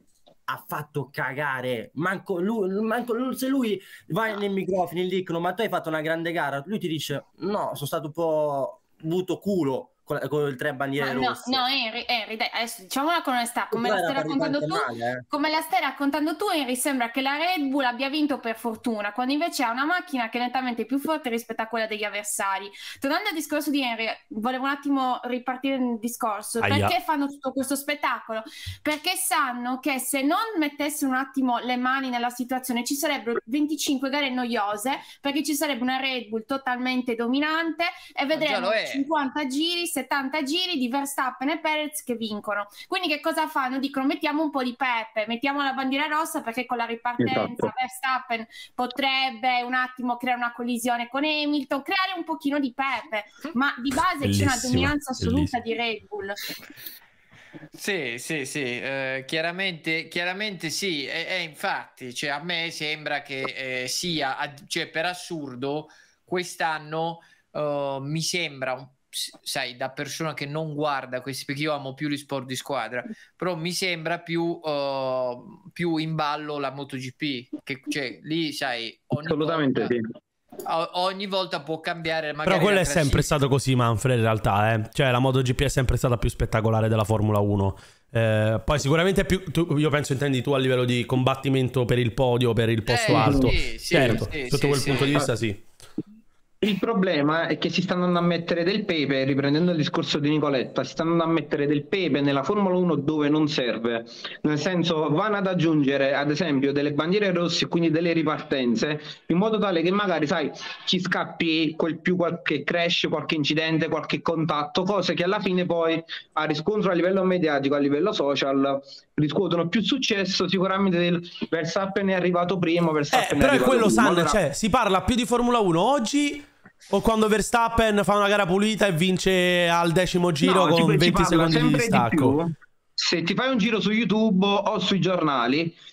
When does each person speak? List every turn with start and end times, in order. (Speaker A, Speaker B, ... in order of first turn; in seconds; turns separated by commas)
Speaker A: 0.5-11.6, Speaker B: 11.0-56.4, Speaker A: 13.7-15.2, Speaker C: 26.6-26.9, Speaker D: 38.3-39.0, Speaker E: 47.2-47.7, Speaker C: 54.2-55.5, Speaker D: 57.7-79.9, Speaker E: 79.2-80.0, Speaker D: 80.6-83.4, Speaker C: 82.4-95.6, Speaker D: 92.8-95.2, Speaker E: 93.1-94.2, Speaker E: 96.6-124.4, Speaker C: 123.1-132.3, Speaker E: 130.4-135.7